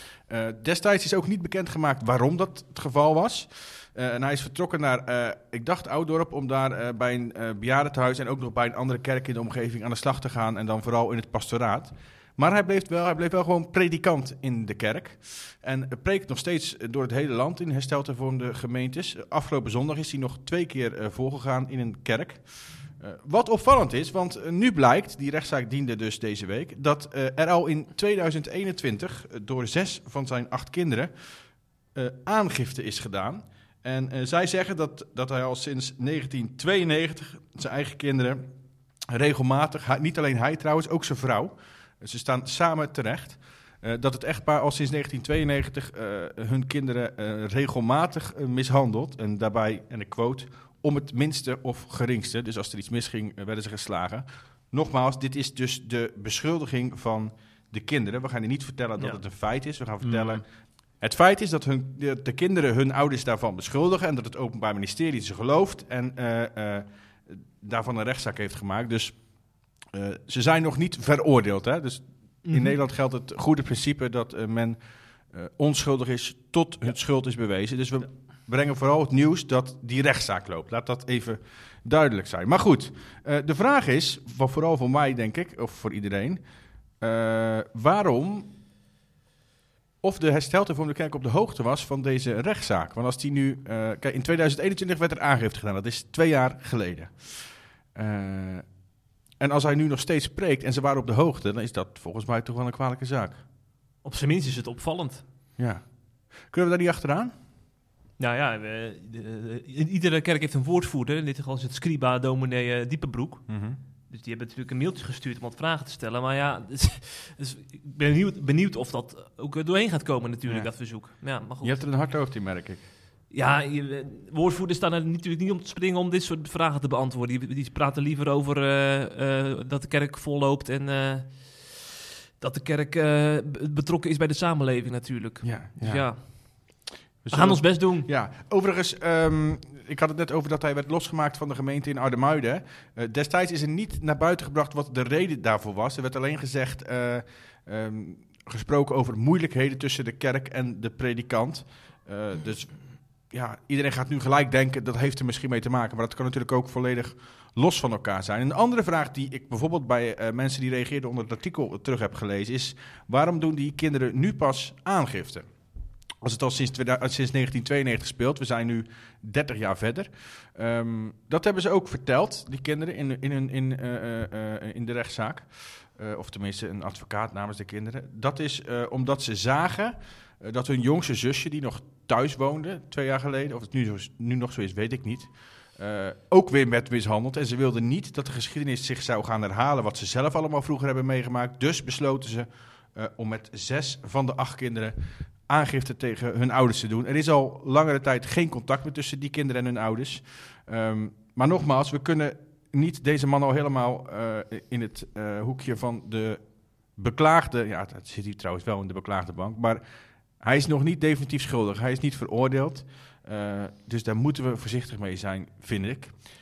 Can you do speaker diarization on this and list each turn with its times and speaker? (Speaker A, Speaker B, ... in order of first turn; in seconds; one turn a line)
Speaker A: 0.3-31.1
Speaker A: 31.9-38.5
Speaker A: 39.1-69.2
Speaker B: 60.0-60.3
Speaker A: 69.9-86.4
Speaker B: 72.4-72.8
Speaker A: 87.0-88.5
Speaker A: 90.0-98.7
Speaker A: 99.4-103.4
Speaker B: 104.0-105.2
Speaker A: 105.6-107.3
Speaker B: 108.2-113.5
Speaker A: 113.5-113.8
Speaker B: 114.1-121.8
Speaker A: 120.5-120.8
Speaker A: 121.6-122.8
Speaker B: 123.3-131.8
Speaker B: 132.4-138.1
Speaker A: 135.4-136.3
Speaker A: 137.2-165.5
Speaker A: 166.2-206.4
Speaker A: 206.9-209.8
Speaker A: 210.4-216.2